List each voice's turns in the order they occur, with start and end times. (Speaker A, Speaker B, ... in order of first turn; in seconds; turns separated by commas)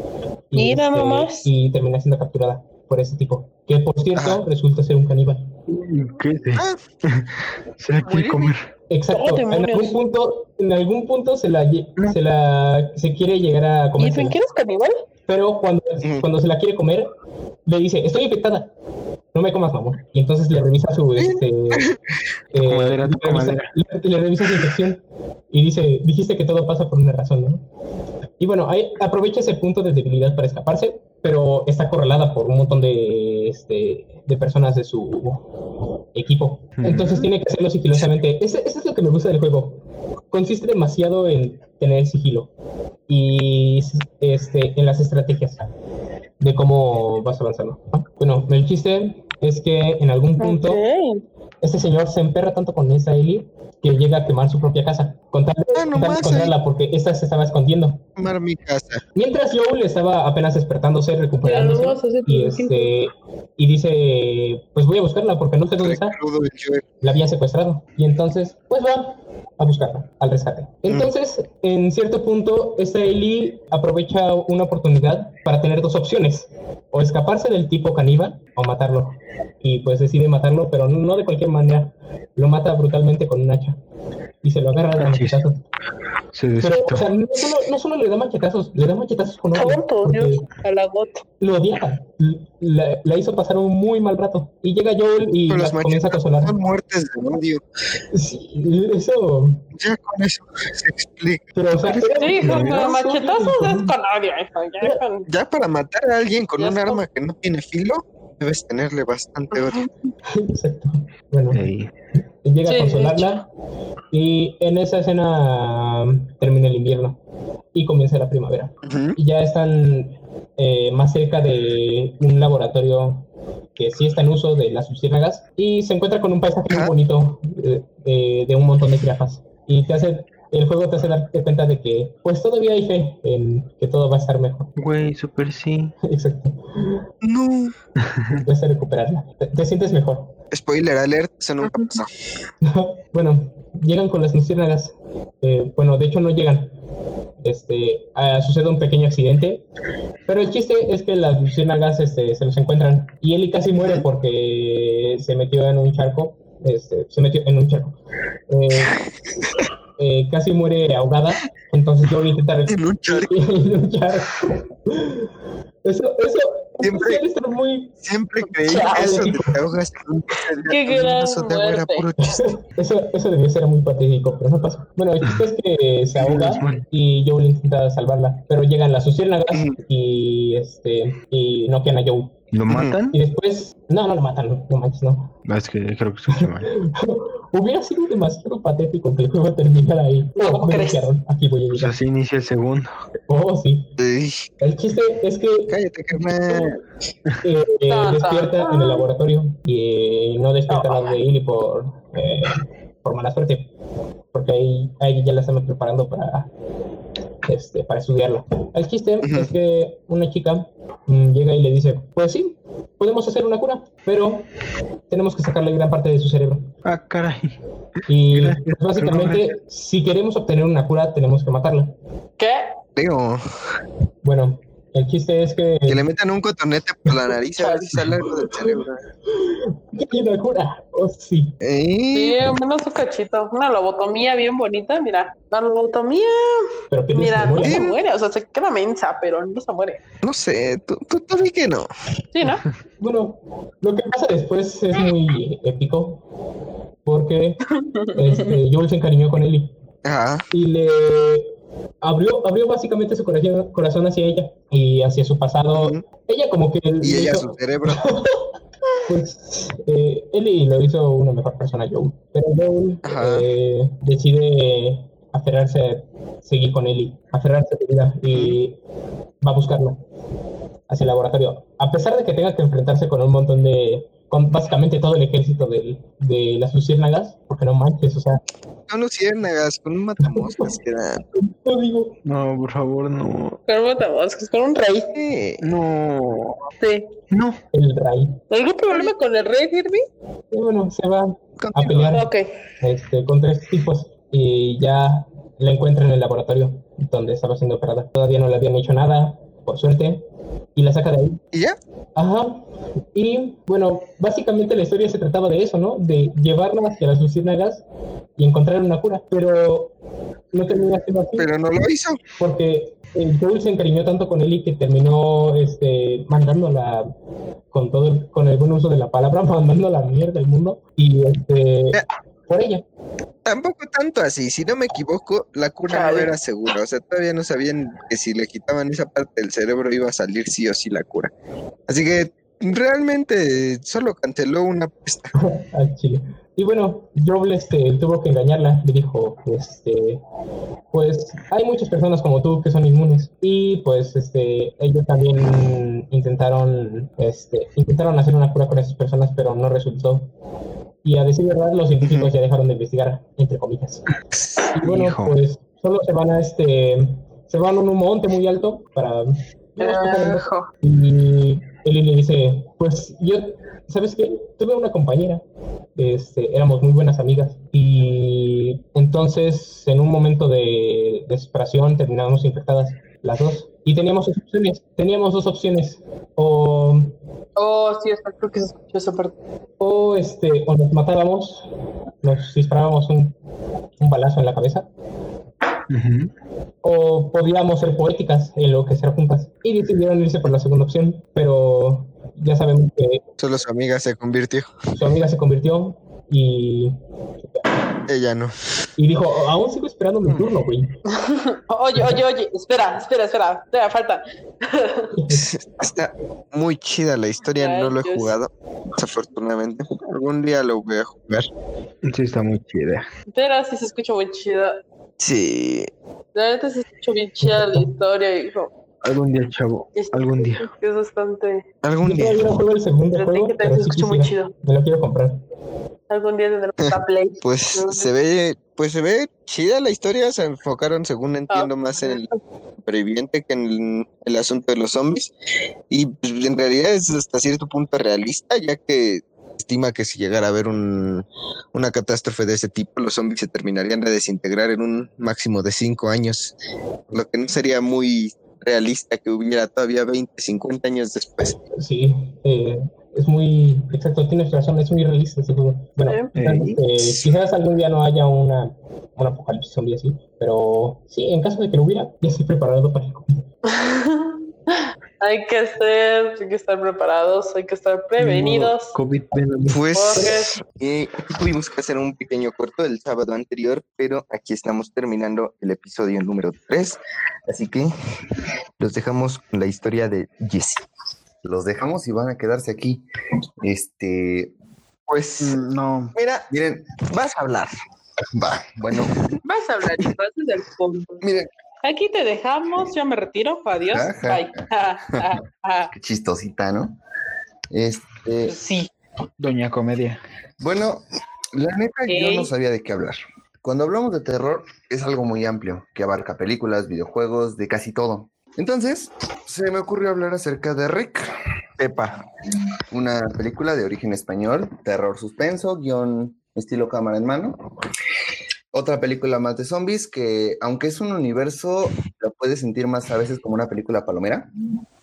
Speaker A: 0.5-5.5, Speaker B: 0.6-1.5, Speaker C: 4.2-4.4, Speaker D: 5.7-8.7, Speaker C: 8.0-8.5, Speaker A: 8.9-14.4, Speaker B: 9.1-9.9, Speaker B: 14.0-14.9, Speaker A: 15.3-17.1, Speaker C: 16.0-16.3, Speaker A: 17.6-18.7, Speaker A: 19.3-21.9, Speaker C: 21.2-22.0, Speaker A: 22.5-27.6, Speaker D: 22.6-23.7, Speaker A: 28.4-35.5, Speaker A: 36.1-42.5, Speaker D: 36.8-37.3, Speaker A: 43.1-45.7, Speaker A: 46.4-50.8, Speaker B: 50.4-51.2, Speaker A: 51.6-58.0, Speaker C: 55.7-56.5, Speaker C: 58.2-59.0, Speaker A: 59.1-66.2, Speaker B: 61.4-62.9, Speaker C: 65.8-66.8, Speaker A: 67.0-83.8, Speaker A: 84.4-85.6, Speaker D: 85.0-85.4, Speaker D: 86.3-87.1, Speaker A: 86.6-90.5, Speaker B: 89.5-91.2, Speaker A: 91.4-96.5, Speaker C: 95.5-97.6, Speaker A: 98.1-99.6, Speaker C: 99.7-101.5, Speaker A: 101.5-103.9, Speaker D: 101.8-102.9, Speaker B: 102.2-105.2, Speaker C: 105.3-109.9, Speaker B: 106.6-107.0, Speaker B: 109.5-109.8, Speaker A: 110.3-111.6, Speaker D: 111.5-111.9, Speaker A: 112.4-113.4, Speaker B: 112.7-113.4, Speaker A: 114.1-117.2, Speaker A: 117.7-134.7, Speaker C: 118.8-119.2, Speaker C: 126.7-126.9, Speaker D: 134.8-135.9, Speaker A: 136.0-137.0, Speaker C: 137.2-137.7, Speaker D: 138.0-138.4, Speaker A: 138.3-140.3, Speaker C: 140.5-142.1, Speaker B: 141.6-141.9, Speaker A: 142.6-146.7, Speaker A: 147.4-149.6, Speaker A: 150.3-158.0, Speaker A: 158.5-159.0, Speaker A: 160.0-165.3, Speaker C: 162.7-163.3, Speaker A: 165.8-168.0, Speaker C: 166.8-167.2, Speaker C: 168.0-172.6, Speaker B: 168.7-169.3, Speaker A: 168.8-169.6, Speaker B: 170.6-172.1, Speaker A: 172.2-182.4, Speaker D: 176.2-176.8, Speaker D: 182.5-183.2, Speaker C: 182.7-182.9, Speaker A: 183.1-185.3, Speaker D: 185.4-186.7, Speaker A: 186.4-191.9, Speaker B: 190.4-191.1, Speaker D: 191.8-192.9, Speaker A: 193.3-193.9, Speaker C: 194.0-194.5, Speaker A: 194.6-195.8, Speaker C: 195.7-196.8, Speaker A: 197.4-203.7, Speaker B: 197.9-199.1, Speaker B: 200.7-201.2, Speaker A: 204.3-206.5, Speaker A: 207.5-214.5, Speaker C: 209.2-209.5, Speaker A: 215.1-216.7, Speaker D: 216.8-217.6, Speaker A: 218.1-221.9, Speaker D: 218.3-219.5, Speaker B: 222.4-222.8, Speaker C: 222.9-223.4, Speaker A: 224.2-226.0, Speaker C: 225.9-229.0, Speaker B: 227.6-227.9, Speaker A: 228.3-228.8, Speaker A: 229.3-231.5, Speaker C: 231.6-232.5, Speaker B: 232.1-240.0, Speaker A: 236.9-237.8, Speaker C: 237.6-237.9, Speaker C: 240.2-241.9, Speaker B: 242.3-242.6, Speaker A: 243.0-246.2, Speaker A: 247.0-247.6, Speaker B: 247.9-248.5, Speaker A: 248.1-249.7, Speaker C: 250.0-250.4, Speaker A: 250.5-251.5, Speaker A: 252.0-258.4, Speaker C: 255.7-256.0, Speaker C: 257.0-258.1, Speaker A: 259.1-268.8, Speaker C: 263.0-263.5, Speaker C: 268.3-268.6, Speaker A: 269.4-270.0, Speaker A: 270.9-278.4, Speaker C: 278.9-281.2, Speaker A: 280.2-280.7, Speaker A: 281.3-282.1, Speaker D: 282.2-283.6, Speaker B: 283.7-285.1, Speaker C: 285.1-285.6, Speaker D: 285.6-286.6, Speaker B: 286.8-287.1, Speaker D: 287.3-287.6, Speaker A: 287.7-288.4, Speaker B: 288.5-290.0, Speaker A: 290.5-292.3, Speaker C: 291.6-292.2, Speaker B: 292.1-292.5, Speaker A: 292.8-300.2, Speaker A: 300.8-301.4, Speaker A: 302.1-307.8, Speaker A: 308.4-309.9, Speaker A: 310.5-311.5, Speaker C: 311.4-312.2, Speaker A: 312.4-317.1, Speaker A: 317.7-322.8, Speaker C: 323.4-331.3, Speaker B: 325.9-326.3, Speaker C: 331.9-335.3, Speaker A: 335.4-340.2, Speaker A: 340.9-350.3, Speaker A: 351.0-354.0, Speaker A: 354.7-365.4, Speaker D: 354.8-355.4, Speaker B: 359.8-360.7, Speaker A: 365.9-377.1, Speaker B: 377.6-379.3, Speaker A: 379.8-381.7, Speaker A: 382.2-383.3, Speaker A: 384.0-384.9, Speaker D: 385.9-386.3, Speaker A: 386.8-393.2, Speaker C: 393.4-394.9, Speaker A: 394.9-397.8, Speaker C: 398.1-398.5, Speaker A: 399.0-400.9, Speaker B: 401.1-405.1, Speaker A: 405.1-405.5, Speaker C: 405.3-411.5, Speaker B: 407.6-408.3, Speaker D: 412.0-413.0, Speaker B: 413.3-414.8, Speaker C: 415.2-415.9, Speaker B: 416.3-418.7, Speaker D: 417.4-417.9, Speaker D: 419.0-420.7, Speaker B: 419.9-421.6, Speaker C: 421.8-422.6, Speaker A: 422.0-425.4, Speaker B: 423.1-424.5, Speaker B: 426.1-428.1, Speaker C: 427.4-432.3, Speaker B: 431.5-432.2, Speaker C: 432.8-435.3, Speaker C: 435.9-446.5, Speaker C: 447.1-451.6, Speaker A: 451.7-463.3, Speaker B: 456.0-456.3, Speaker D: 456.3-456.8, Speaker C: 457.0-457.3, Speaker B: 463.6-468.9, Speaker D: 468.2-470.3, Speaker C: 469.7-477.9, Speaker B: 469.9-470.5, Speaker C: 478.8-480.8, Speaker E: 481.4-483.0, Speaker E: 483.6-484.5, Speaker C: 485.1-485.6, Speaker D: 485.4-486.1, Speaker C: 486.1-486.4, Speaker E: 486.5-486.9, Speaker C: 487.0-487.7, Speaker E: 488.3-489.4, Speaker C: 488.9-489.4, Speaker B: 489.4-491.2, Speaker E: 491.2-491.5, Speaker B: 491.8-495.9, Speaker E: 493.8-495.3, Speaker E: 495.9-497.0, Speaker E: 497.7-498.6, Speaker B: 498.4-498.9, Speaker D: 499.4-500.2, Speaker E: 500.6-511.3, Speaker B: 502.1-502.5, Speaker C: 511.8-512.2, Speaker E: 512.9-517.6, Speaker E: 518.7-524.5